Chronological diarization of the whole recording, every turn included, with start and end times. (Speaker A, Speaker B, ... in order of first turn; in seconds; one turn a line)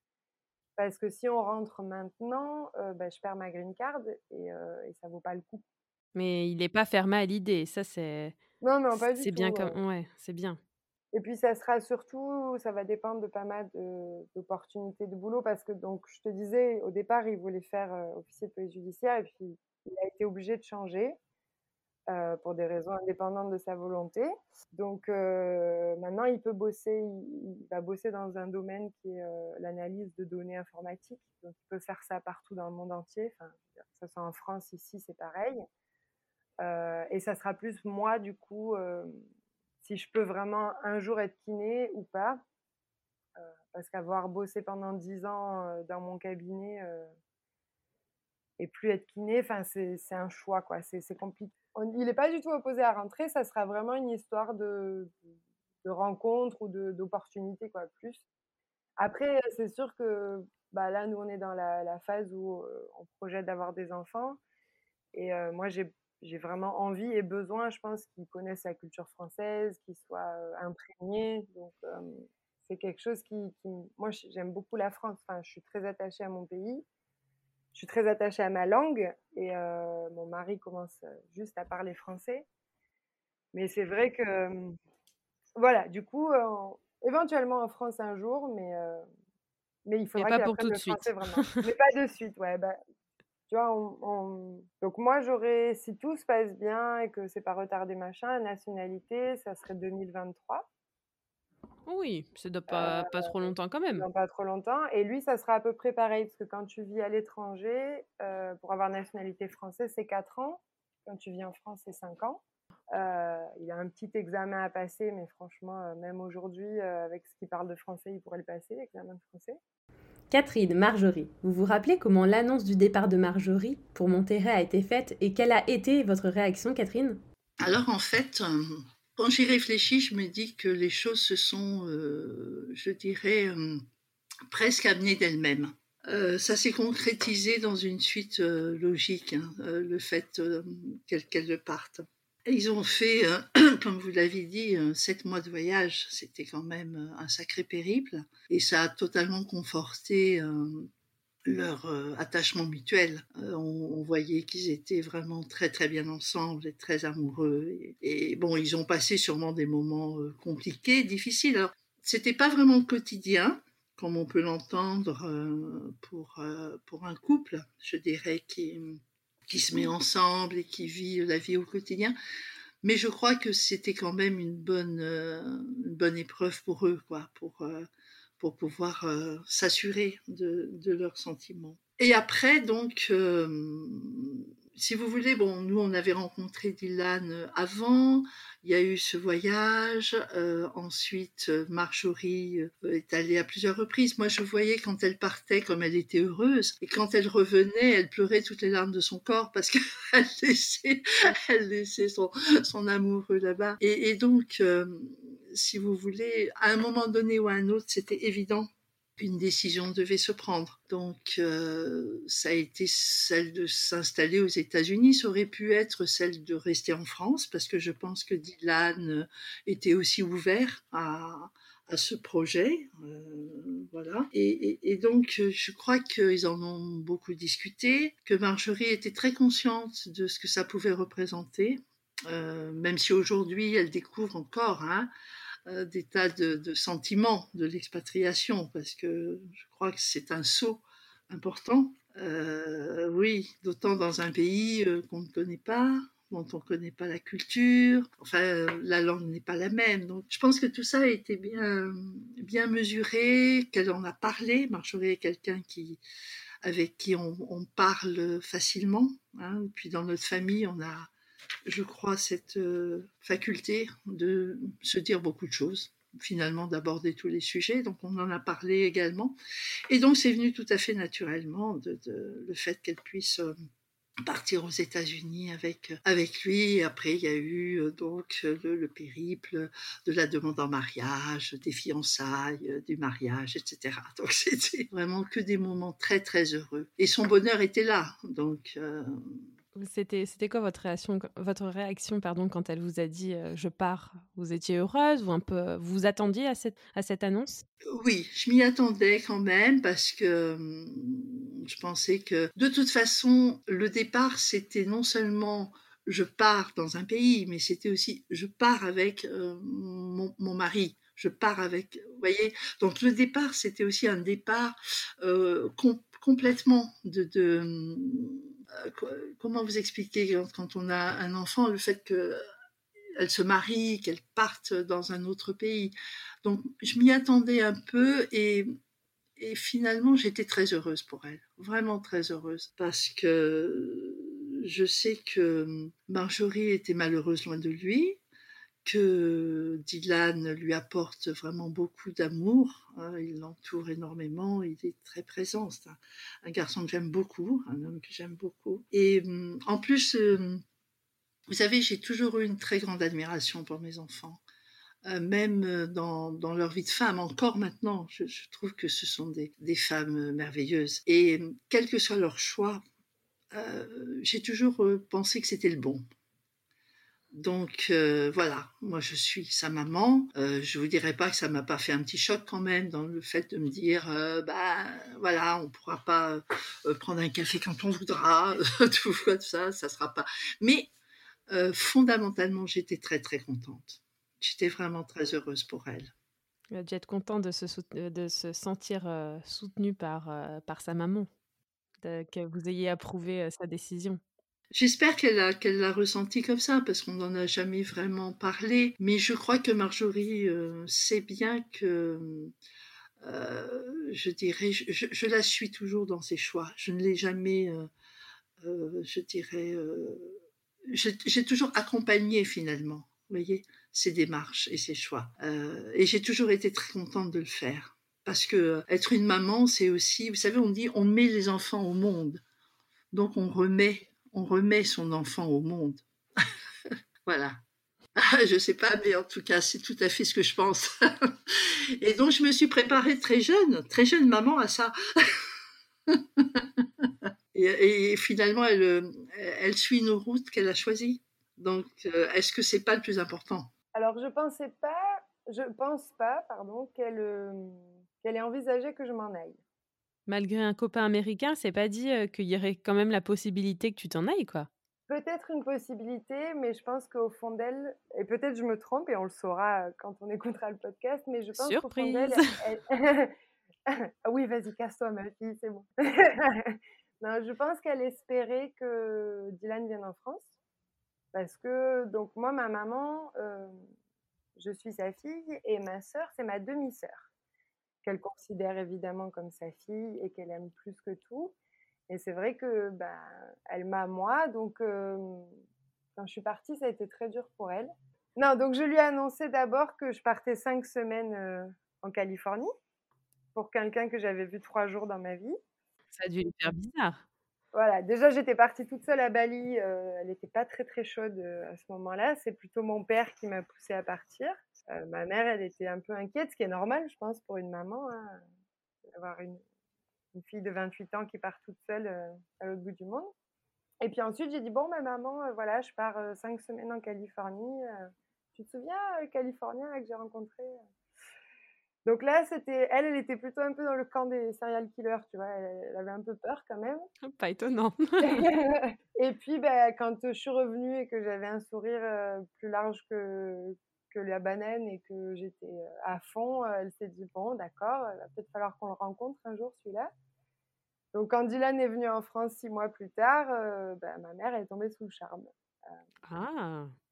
Speaker A: 0.8-5.6
Speaker B: 6.1-8.4
Speaker A: 8.6-9.8
Speaker B: 9.0-10.6
Speaker A: 11.1-21.2
Speaker A: 22.1-35.6
Speaker A: 36.6-39.2
Speaker A: 39.8-42.4
Speaker A: 43.4-47.1
Speaker A: 48.6-55.2
Speaker A: 55.8-58.2
Speaker A: 59.0-64.4
Speaker A: 65.1-76.8
Speaker A: 77.7-82.5
Speaker A: 83.5-84.8
Speaker A: 85.6-89.0
Speaker A: 89.9-92.8
Speaker B: 90.2-91.7
Speaker A: 93.5-100.7
Speaker B: 101.9-104.1
Speaker A: 102.7-119.6
Speaker B: 120.3-127.2
Speaker C: 127.6-133.8
Speaker C: 134.5-150.9
Speaker C: 151.5-172.2
Speaker C: 172.8-177.9
Speaker C: 178.4-235.1
Speaker C: 235.7-256.0
Speaker C: 256.6-261.1
Speaker C: 261.7-269.4
Speaker C: 269.9-273.5
Speaker C: 274.2-289.4
Speaker B: 289.7-297.6
Speaker C: 297.9-322.4
Speaker C: 323.1-328.8
Speaker C: 329.4-338.2
Speaker C: 338.8-350.6
Speaker C: 351.5-354.4
Speaker C: 355.1-362.8
Speaker C: 363.5-366.0
Speaker C: 367.3-380.9
Speaker C: 381.5-386.1
Speaker B: 386.7-391.3
Speaker B: 392.0-394.2
Speaker C: 394.7-402.5
Speaker C: 403.2-407.9
Speaker C: 408.6-422.4
Speaker C: 423.1-426.0
Speaker C: 426.9-427.6
Speaker C: 428.2-435.4
Speaker C: 436.1-443.7
Speaker A: 443.9-449.6
Speaker B: 450.3-454.7
Speaker A: 455.1-463.3
Speaker B: 461.6-462.5
Speaker A: 463.9-470.5
Speaker A: 471.3-473.8
Speaker A: 474.6-477.3
Speaker A: 478.0-481.5
Speaker A: 482.1-485.6
Speaker A: 486.2-492.7
Speaker A: 493.6-495.6
Speaker B: 496.1-497.2
Speaker A: 497.7-508.4
Speaker A: 509.1-509.6
Speaker A: 510.3-513.3
Speaker A: 514.0-520.8
Speaker A: 522.1-527.1
Speaker B: 527.2-528.5
Speaker A: 528.2-540.1
Speaker A: 541.1-546.0
Speaker B: 546.2-546.9